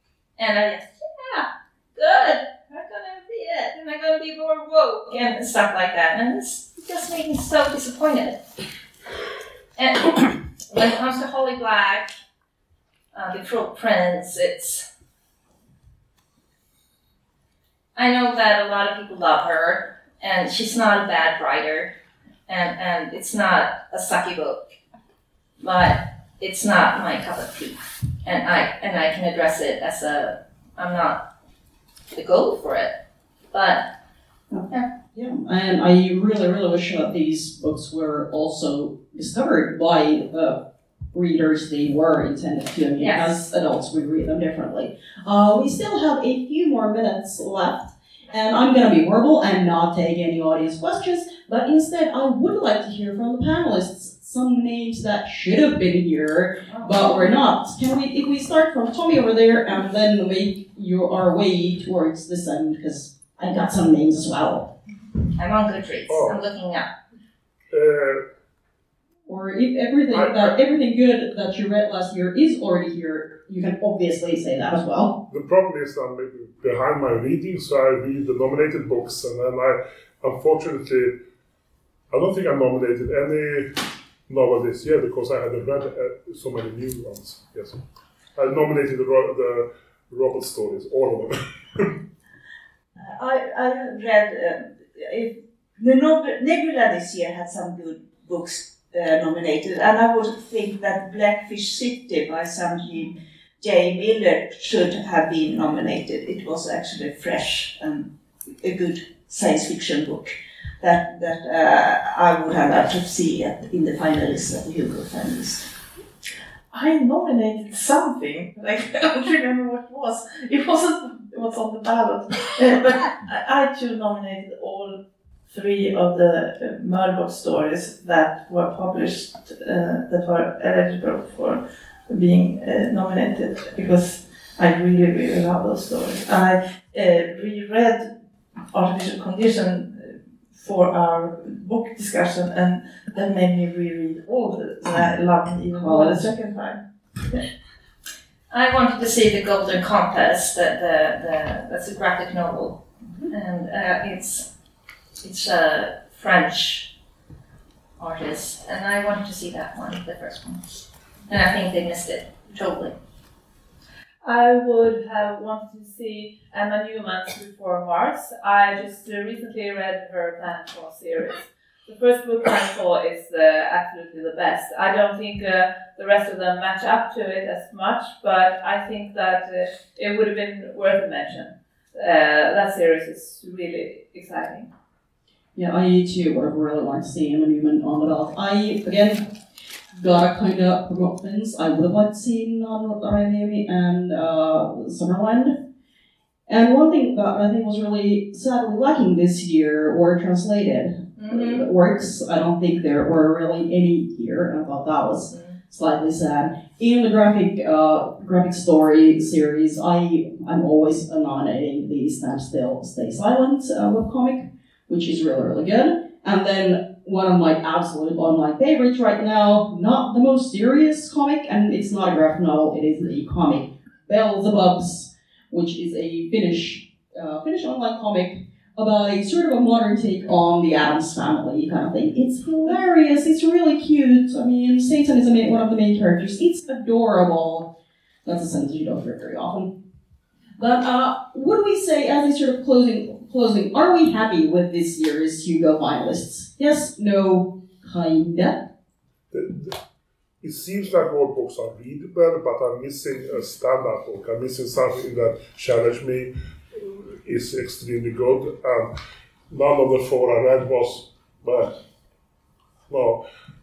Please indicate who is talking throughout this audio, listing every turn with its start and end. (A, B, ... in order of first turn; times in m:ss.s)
0:00.4-0:08.4 A
0:09.8-0:12.1 A
0:13.1-0:14.9 A
0:18.0-0:21.9 A
0:22.5-0:24.7 A
0:25.6-0:31.2 A
0:32.1-0:32.9 A
0:33.5-0:33.9 A
0:34.5-0:40.6 B
0:41.1-1:04.7 B
0:43.0-0:43.3 A
0:56.7-0:57.1 A
1:05.4-1:06.9 A
1:06.1-1:06.4 C
1:07.7-1:08.2 C
1:09.3-1:15.2 B
1:10.1-1:10.5 C
1:15.3-1:21.1 C
1:22.1-1:27.8 C
1:28.4-1:32.0 C
1:33.0-1:48.1 D
1:48.6-1:55.7 D
1:56.7-2:18.1 E
2:18.7-2:27.4 E
2:25.7-2:26.2 B
2:28.5-2:32.8 A
2:33.3-2:34.5 A
2:35.2-2:36.9 A
2:38.0-2:40.6 A
2:41.3-2:43.0 A
2:44.2-3:04.7 F
3:05.6-3:09.3 B
3:09.9-3:15.6 B
3:16.5-3:57.7 B
3:21.2-3:21.6 A
3:58.2-3:59.7 B
4:00.6-4:08.7 B
4:09.3-4:09.8 C
4:10.4-4:19.0 C
4:19.5-4:21.8 C
4:22.9-4:23.2 C